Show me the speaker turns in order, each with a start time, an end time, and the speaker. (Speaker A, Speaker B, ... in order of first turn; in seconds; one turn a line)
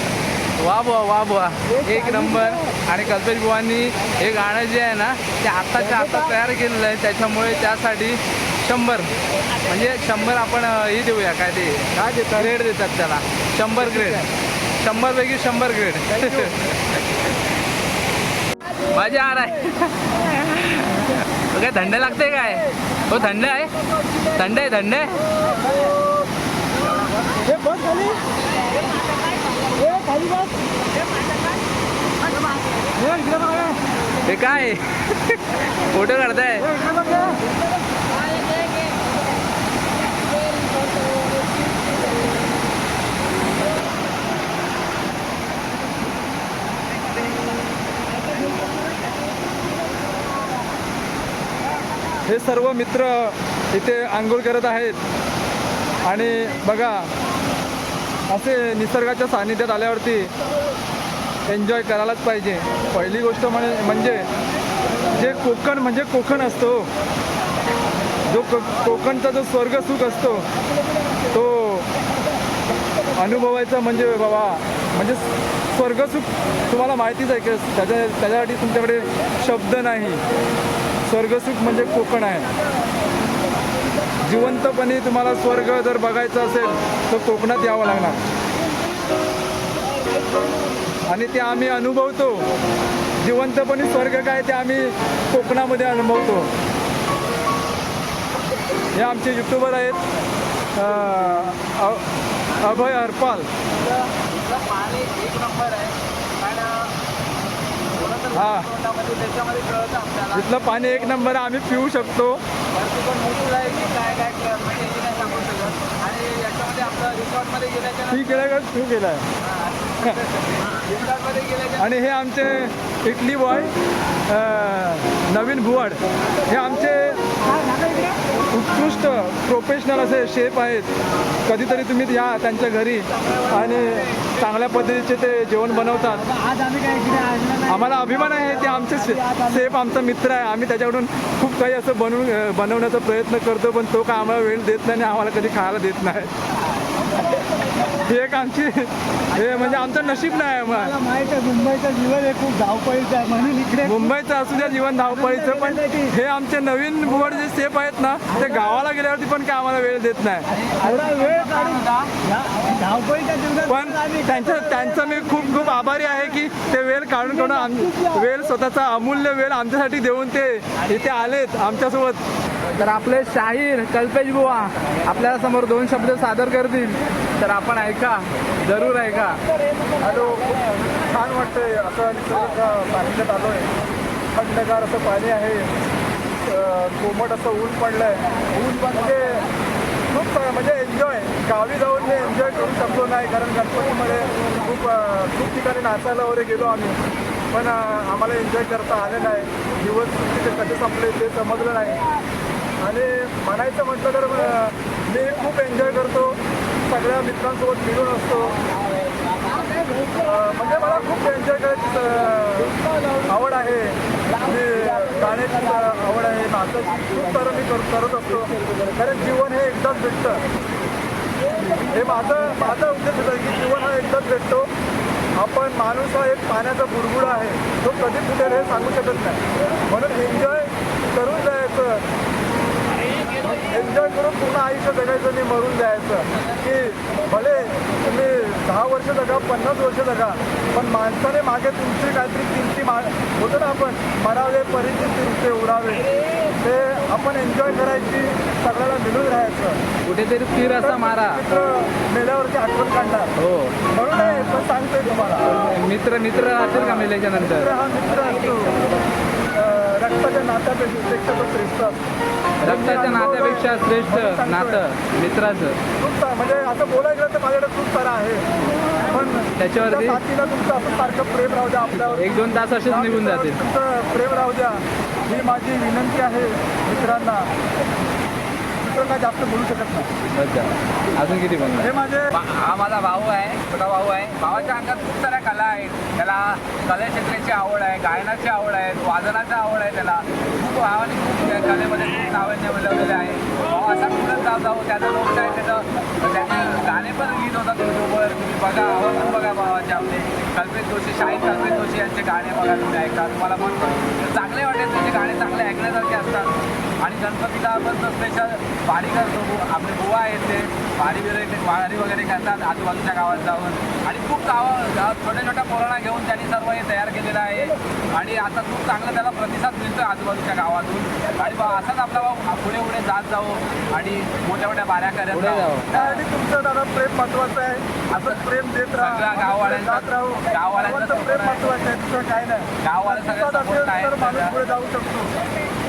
Speaker A: 0.6-9.1
Speaker B: 1.9-2.5
Speaker A: 9.6-14.2
Speaker B: 11.9-12.6
Speaker B: 13.8-14.3
Speaker A: 14.8-17.2
Speaker B: 16.1-16.5
Speaker A: 18.9-23.7
Speaker A: 24.3-25.2
Speaker B: 27.5-28.0
Speaker C: 27.6-28.2
Speaker C: 29.6-30.7
Speaker B: 33.0-33.6
Speaker A: 34.3-36.7
Speaker B: 36.7-37.3
Speaker C: 37.0-37.3
Speaker B: 52.3-55.0
Speaker B: 56.0-57.1
Speaker B: 58.3-60.3
Speaker B: 61.5-64.3
Speaker B: 65.1-66.9
Speaker B: 68.3-70.5
Speaker B: 71.3-71.9
Speaker B: 73.2-80.2
Speaker B: 81.0-82.5
Speaker B: 84.2-88.2
Speaker C: 90.1-91.0
Speaker B: 91.1-92.5
Speaker B: 93.2-96.5
Speaker B: 98.9-100.1
Speaker B: 100.8-102.1
Speaker B: 102.6-103.5
Speaker A: 103.7-106.9
Speaker A: 107.9-110.7
Speaker B: 108.3-108.7
Speaker B: 110.3-112.4
Speaker A: 112.7-118.5
Speaker B: 118.1-119.3
Speaker A: 119.4-122.0
Speaker B: 121.8-123.7
Speaker B: 124.3-127.3
Speaker C: 127.5-128.2
Speaker B: 128.5-130.9
Speaker B: 131.4-136.3
Speaker C: 136.2-139.7
Speaker B: 137.7-146.3
Speaker C: 147.0-148.0
Speaker B: 147.9-151.0
Speaker C: 149.4-149.9
Speaker C: 150.5-154.1
Speaker B: 153.8-161.3
Speaker C: 154.7-156.1
Speaker A: 160.5-162.1
Speaker C: 160.8-165.8
Speaker B: 163.7-172.2
Speaker C: 167.3-168.2
Speaker A: 172.7-179.4
Speaker B: 180.0-183.7
Speaker B: 184.3-185.8
Speaker B: 186.4-188.3
Speaker B: 188.9-189.4
Speaker B: 190.1-197.0
Speaker B: 197.5-202.1
Speaker B: 202.8-208.6
Speaker B: 210.2-220.4
Speaker B: 221.8-224.7
Speaker B: 225.4-232.1
Speaker B: 233.5-249.8
Speaker A: 250.1-251.4
Speaker B: 250.8-253.3
Speaker A: 253.4-253.8
Speaker B: 253.9-255.7
Speaker A: 255.4-257.8
Speaker B: 256.5-258.8
Speaker B: 259.5-262.0
Speaker B: 262.6-264.8
Speaker A: 262.6-265.8
Speaker B: 266.0-277.5
Speaker A: 269.6-270.2
Speaker A: 271.9-273.6
Speaker B: 278.8-280.1
Speaker A: 280.3-281.9
Speaker B: 281.8-282.3
Speaker D: 282.3-326.2
Speaker A: 325.3-325.9
Speaker B: 325.9-335.4
Speaker D: 328.1-328.4
Speaker D: 329.0-331.7
Speaker D: 332.8-334.6